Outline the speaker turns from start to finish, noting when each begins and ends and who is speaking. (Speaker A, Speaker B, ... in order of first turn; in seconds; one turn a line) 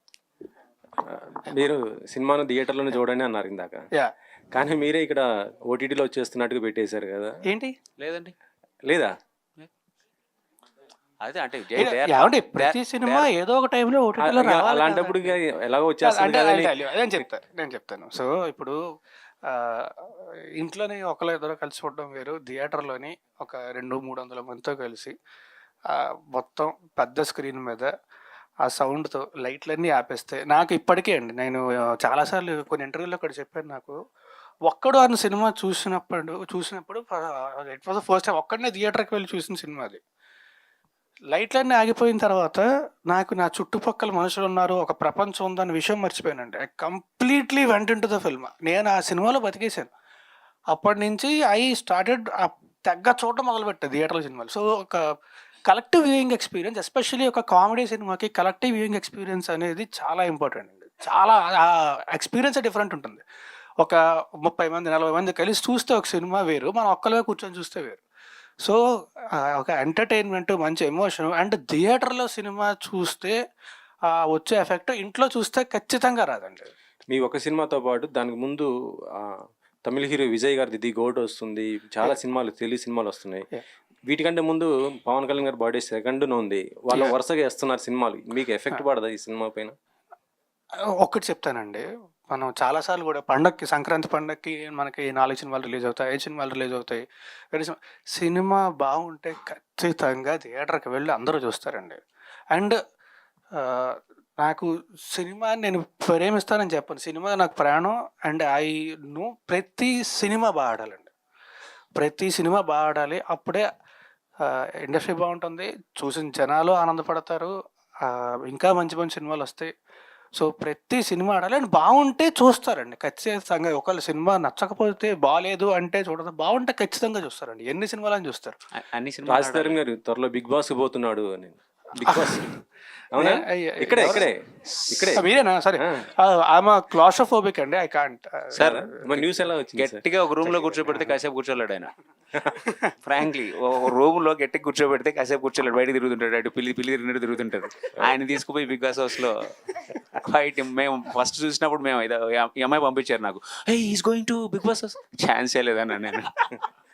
Speaker A: 1.0-3.8
Speaker A: 4.5-7.3
Speaker B: 7.5-7.8
Speaker C: 8.0-8.3
Speaker A: 8.8-9.1
Speaker C: 11.2-13.3
Speaker B: 11.8-15.3
Speaker A: 14.2-16.8
Speaker B: 16.0-18.8
Speaker B: 19.4-25.1
Speaker B: 25.9-27.9
Speaker B: 28.6-34.0
Speaker B: 34.6-40.0
Speaker B: 41.3-49.9
Speaker B: 50.7-55.0
Speaker B: 55.7-63.2
Speaker B: 63.8-68.0
Speaker B: 69.3-73.3
Speaker B: 74.0-76.7
Speaker A: 77.1-83.4
Speaker A: 84.1-89.7
Speaker B: 90.8-102.0
Speaker B: 102.5-102.8
Speaker B: 103.6-111.1
Speaker B: 112.0-113.7
Speaker B: 114.4-117.5
Speaker B: 118.0-119.7
Speaker B: 120.3-128.6
Speaker C: 128.7-129.8
Speaker A: 129.2-132.5
Speaker A: 133.1-134.3
Speaker B: 133.2-134.3
Speaker A: 134.9-135.2
Speaker B: 135.0-139.2
Speaker A: 135.8-136.0
Speaker A: 138.5-140.0
Speaker C: 138.6-138.8
Speaker C: 139.8-141.9
Speaker C: 143.0-149.5
Speaker C: 150.1-156.4